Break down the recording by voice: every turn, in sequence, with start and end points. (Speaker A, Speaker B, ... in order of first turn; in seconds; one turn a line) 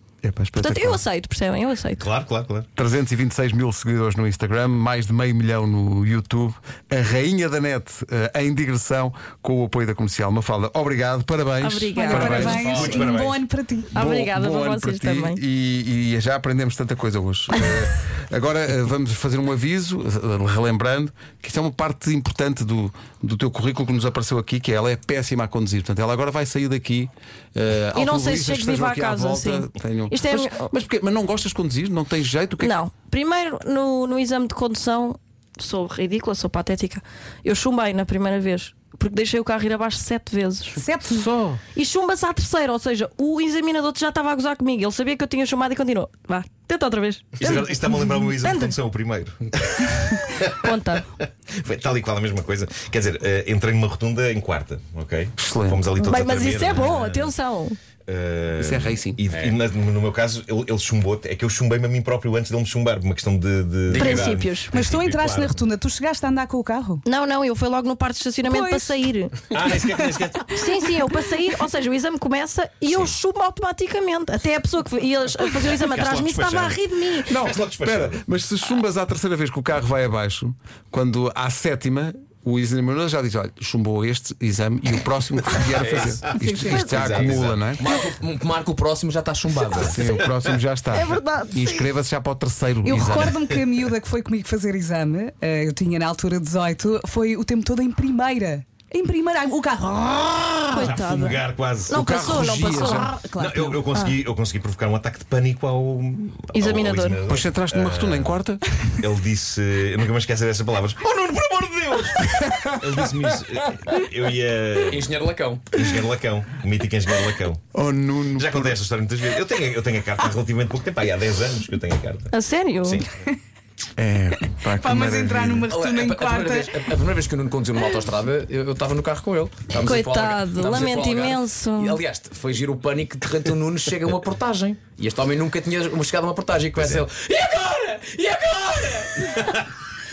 Speaker A: 0.2-1.0
Speaker B: 0.6-2.0
Speaker C: 2.0-2.7
Speaker A: 2.8-12.8
Speaker B: 11.6-12.4
Speaker D: 11.9-14.0
Speaker E: 12.2-13.1
Speaker C: 12.6-13.4
Speaker A: 13.9-32.8
Speaker B: 14.0-15.4
Speaker B: 27.9-30.7
Speaker B: 32.6-40.8
Speaker D: 40.8-41.3
Speaker A: 41.1-41.6
Speaker B: 41.7-47.8
Speaker C: 47.4-50.7
Speaker B: 48.4-48.7
Speaker B: 50.6-51.0
Speaker C: 51.5-57.3
Speaker A: 55.4-55.9
Speaker B: 56.0-57.8
Speaker C: 58.0-65.6
Speaker A: 58.6-59.2
Speaker E: 59.3-59.6
Speaker E: 63.9-64.4
Speaker B: 64.0-64.7
Speaker D: 64.7-67.0
Speaker B: 67.0-69.4
Speaker D: 68.5-69.0
Speaker C: 69.5-70.6
Speaker B: 70.5-77.3
Speaker C: 72.9-73.1
Speaker C: 75.6-78.2
Speaker A: 77.3-87.9
Speaker E: 85.6-86.3
Speaker D: 86.3-87.0
Speaker C: 86.8-87.6
Speaker E: 87.0-90.1
Speaker A: 89.7-93.3
Speaker B: 90.9-91.9
Speaker D: 92.8-100.8
Speaker B: 100.7-103.1
Speaker C: 100.7-102.0
Speaker A: 101.9-103.2
Speaker D: 102.7-103.8
Speaker C: 103.3-115.2
Speaker B: 103.9-104.2
Speaker B: 106.5-107.2
Speaker A: 107.3-108.9
Speaker A: 112.3-113.0
Speaker E: 114.9-115.7
Speaker C: 115.7-117.6
Speaker A: 117.7-118.8
Speaker C: 118.3-122.3
Speaker B: 122.3-123.0
Speaker A: 124.0-125.7
Speaker D: 124.7-126.8
Speaker E: 125.7-139.4
Speaker B: 129.8-132.0
Speaker C: 136.8-137.0